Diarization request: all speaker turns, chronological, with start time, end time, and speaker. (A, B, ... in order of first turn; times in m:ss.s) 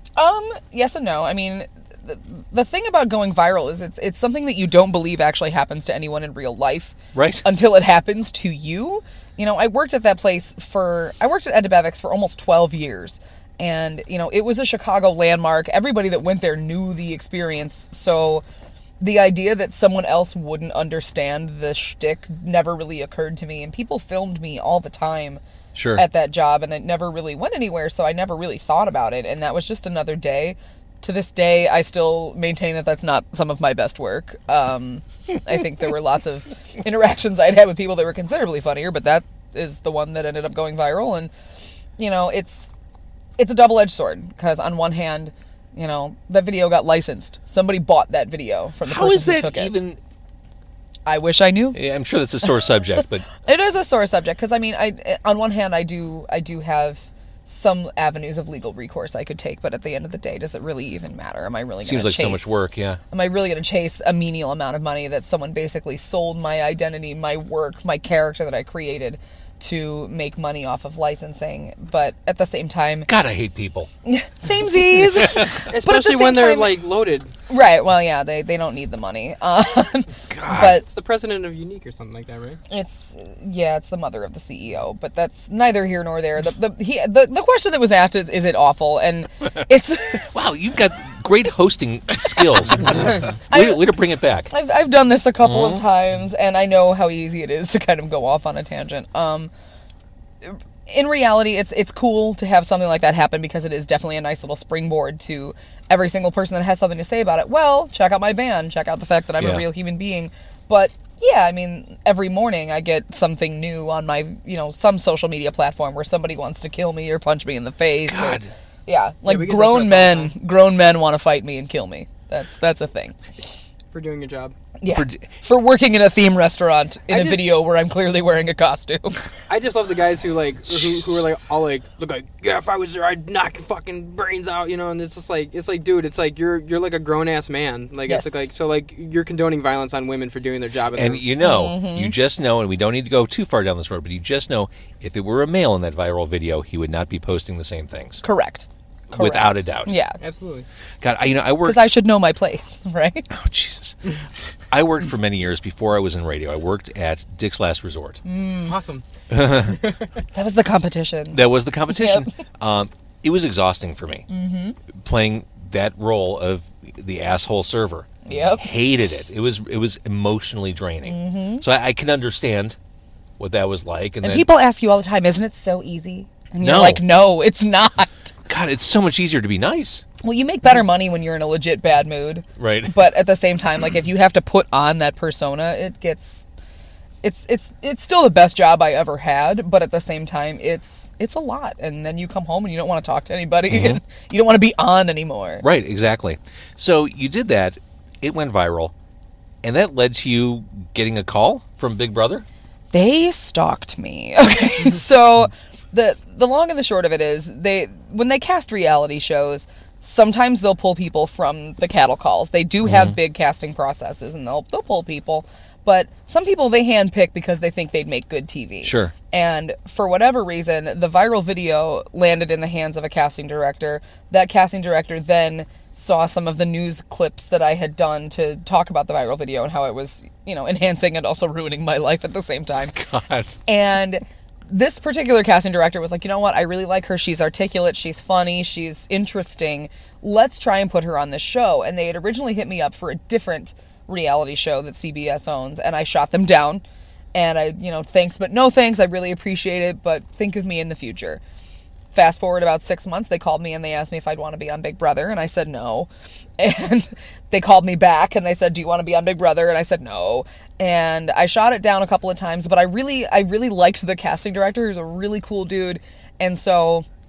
0:00.2-0:18.4 A
0:07.1-0:07.5 B
0:19.0-0:25.4 A
0:25.8-0:26.0 B
0:26.0-0:41.3 A
0:42.0-0:42.7 A
0:43.4-0:49.8 A
0:48.8-0:50.0 B
0:51.1-0:51.8 A
0:51.7-0:53.3 B
0:53.4-1:13.1 A
1:01.8-1:03.0 B
1:13.1-1:13.9 B
1:14.0-1:16.8 A
1:15.7-1:17.3 C
1:17.5-1:20.8 A
1:20.3-1:20.8 B
1:20.6-1:22.6 C
1:22.7-1:30.3 A
1:30.2-1:34.5 B
1:33.5-1:34.0 A
1:34.5-1:39.5 A
1:35.4-1:35.8 B
1:40.4-2:03.2 A
1:49.4-1:49.6 B
1:58.0-1:58.5 B
1:59.2-2:00.4 C
2:03.9-2:04.6 C
2:04.8-2:09.2 A
2:04.9-2:05.2 B
2:07.1-2:07.5 C
2:09.5-2:21.2 C
2:18.1-2:18.5 A
2:20.9-2:28.2 B
2:21.4-2:22.2 A
2:28.2-2:30.2 A
2:29.1-2:29.9 B
2:30.2-2:30.7 C
2:31.0-2:31.9 B
2:31.6-2:33.3 A
2:33.3-2:34.0 B
2:34.7-2:38.2 B
2:38.2-2:38.8 A
2:38.7-2:39.0 C
2:39.3-2:39.8 B
2:40.3-2:42.3 A
2:41.3-2:44.3 B
2:44.3-2:44.8 A
2:45.0-2:52.8 B
2:48.2-2:48.7 A
2:51.0-2:51.6 A
2:53.4-2:54.5 B
2:54.2-2:58.3 A
2:56.6-2:57.1 B
2:58.5-3:00.0 B
3:00.2-3:06.5 A
3:02.6-3:03.0 B
3:07.2-3:15.7 A
3:13.7-3:14.0 B
3:15.6-3:18.9 B
3:19.6-3:22.4 B
3:22.9-3:53.0 A
3:38.8-3:39.1 B
3:52.9-3:53.6 B
3:53.7-4:06.8 A
4:07.3-4:11.4 A
4:12.1-4:27.1 A